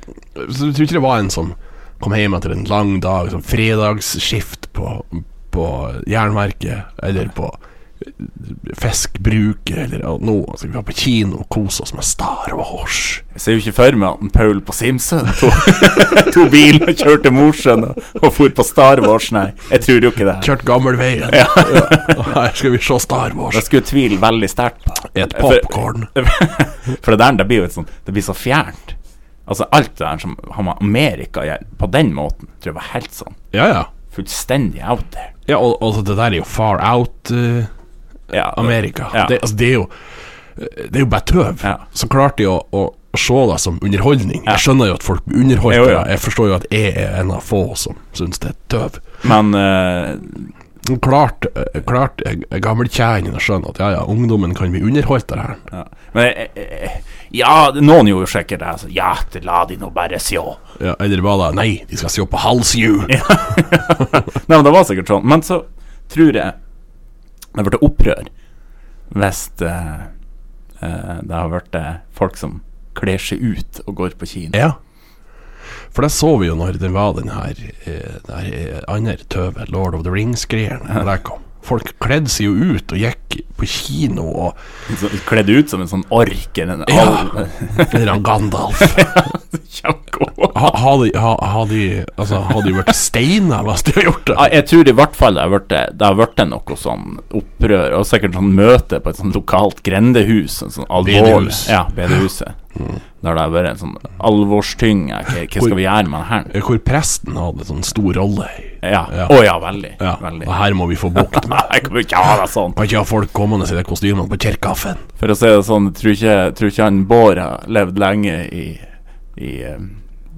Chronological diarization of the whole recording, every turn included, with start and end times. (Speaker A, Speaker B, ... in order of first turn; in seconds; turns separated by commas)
Speaker A: 0.3-13.2, Speaker B: 13.3-20.5, Speaker A: 20.4-23.7, Speaker B: 21.3-22.3, Speaker B: 23.5-33.4, Speaker A: 25.1-26.1, Speaker A: 33.5-33.9, Speaker B: 34.1-35.3, Speaker A: 35.5-37.7, Speaker B: 38.3-39.4, Speaker A: 38.5-39.9, Speaker A: 40.5-49.0, Speaker B: 45.7-46.1, Speaker B: 49.2-50.5, Speaker A: 50.8-55.6, Speaker B: 55.7-60.6, Speaker A: 60.8-64.2, Speaker B: 63.1-66.6, Speaker B: 67.5-68.3, Speaker B: 69.1-70.1, Speaker B: 70.8-74.6, Speaker A: 75.9-84.6, Speaker B: 84.9-88.1, Speaker A: 86.9-89.1, Speaker B: 88.8-90.8, Speaker A: 90.5-94.5, Speaker B: 94.3-102.6, Speaker A: 101.0-101.8, Speaker B: 103.2-106.5, Speaker A: 106.5-109.3, Speaker B: 108.8-110.5, Speaker A: 110.0-111.7, Speaker B: 111.2-112.8, Speaker A: 112.8-115.0, Speaker B: 115.2-118.8, Speaker B: 119.4-120.0